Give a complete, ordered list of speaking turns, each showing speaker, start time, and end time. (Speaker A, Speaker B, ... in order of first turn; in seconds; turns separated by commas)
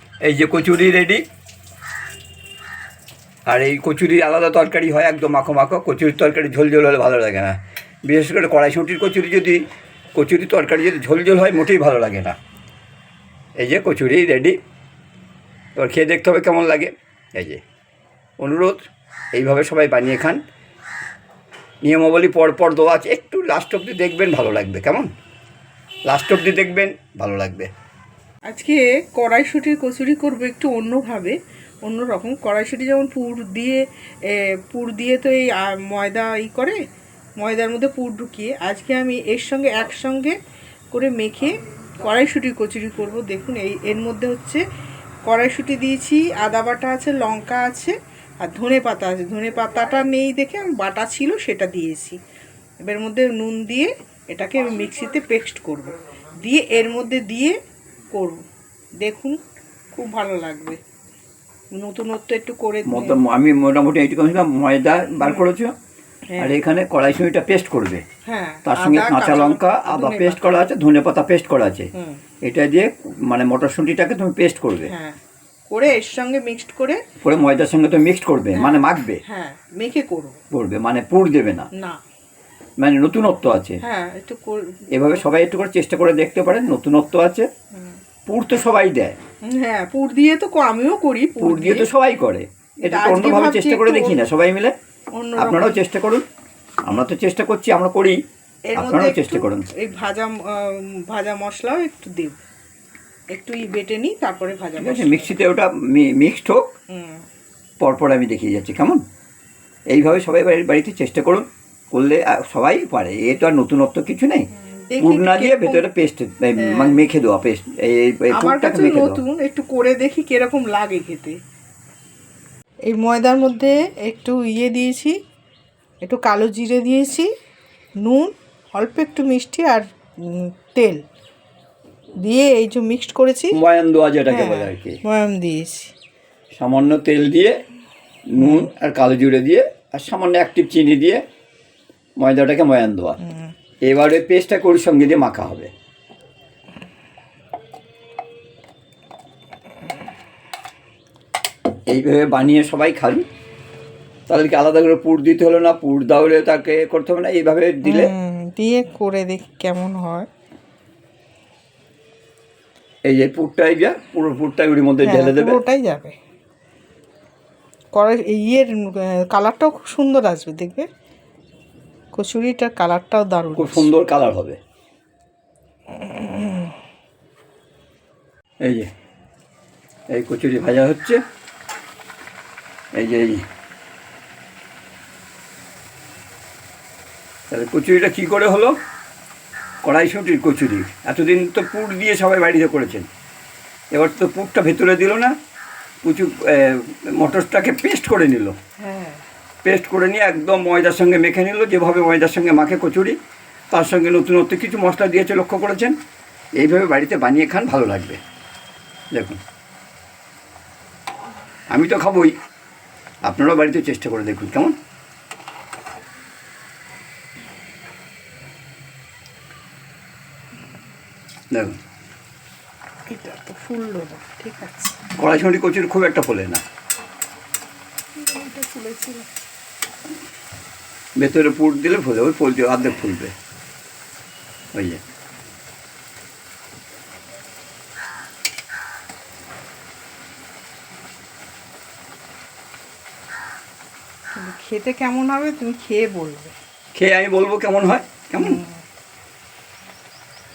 Speaker A: 0.2-1.2, Speaker A: 3.5-9.6, Speaker A: 10.1-12.4, Speaker A: 13.6-14.6, Speaker A: 15.8-17.6, Speaker A: 18.4-18.8, Speaker A: 19.3-20.4, Speaker A: 21.8-25.1, Speaker A: 26.1-27.7, Speaker B: 28.5-36.8, Speaker B: 37.4-40.3, Speaker B: 40.9-44.6, Speaker B: 45.3-52.2, Speaker B: 52.8-57.6, Speaker B: 58.1-58.4, Speaker B: 59.0-59.4, Speaker B: 59.9-60.8, Speaker B: 61.7-63.2, Speaker A: 62.9-65.7, Speaker B: 65.2-65.5, Speaker B: 66.3-66.6, Speaker A: 66.4-68.0, Speaker B: 68.2-70.4, Speaker A: 68.6-71.9, Speaker B: 71.9-72.2, Speaker A: 72.4-74.9, Speaker B: 74.9-75.2, Speaker B: 75.7-77.0, Speaker A: 77.2-79.2, Speaker B: 78.5-80.4, Speaker A: 80.5-81.7, Speaker B: 81.7-82.0, Speaker A: 82.8-83.8, Speaker B: 83.8-84.8, Speaker A: 84.9-87.5, Speaker A: 88.3-89.2, Speaker B: 89.4-91.9, Speaker A: 91.4-94.7, Speaker B: 92.8-94.2, Speaker B: 95.2-95.8, Speaker A: 95.4-96.2, Speaker A: 96.9-98.2, Speaker B: 98.7-102.4, Speaker A: 98.8-99.7, Speaker B: 103.3-105.4, Speaker A: 104.8-106.7, Speaker B: 106.9-107.2, Speaker A: 107.8-109.0, Speaker A: 109.9-114.5, Speaker B: 114.5-115.9, Speaker A: 115.0-119.2, Speaker B: 116.6-117.0, Speaker B: 118.3-121.4, Speaker B: 122.9-125.2, Speaker B: 126.0-127.3, Speaker B: 128.0-131.0, Speaker B: 132.2-133.6, Speaker A: 133.5-135.0, Speaker B: 134.3-135.9, Speaker A: 136.5-137.6, Speaker A: 138.3-141.2, Speaker B: 138.4-138.7, Speaker A: 142.2-143.2, Speaker B: 143.2-143.5, Speaker A: 143.8-145.7, Speaker A: 151.9-153.2, Speaker A: 154.3-158.1, Speaker B: 157.8-160.3, Speaker A: 163.1-165.6, Speaker B: 165.0-166.2, Speaker B: 167.9-170.9, Speaker B: 172.1-173.9, Speaker A: 173.6-174.6, Speaker B: 175.9-176.7, Speaker A: 178.6-178.9, Speaker A: 180.1-181.2, Speaker A: 183.0-183.4, Speaker A: 187.5-188.7, Speaker A: 189.8-193.1, Speaker A: 193.9-195.3, Speaker A: 196.0-198.6, Speaker B: 198.8-199.2, Speaker A: 199.6-203.2, Speaker A: 203.7-205.9, Speaker A: 206.6-208.2, Speaker A: 209.1-209.4, Speaker A: 211.7-212.3, Speaker A: 213.2-214.7, Speaker A: 221.5-221.8, Speaker B: 223.1-225.0, Speaker A: 225.2-226.6, Speaker B: 228.2-229.3, Speaker A: 231.2-233.3, Speaker A: 234.7-235.0, Speaker B: 244.3-246.5, Speaker A: 246.9-248.6, Speaker B: 248.3-248.8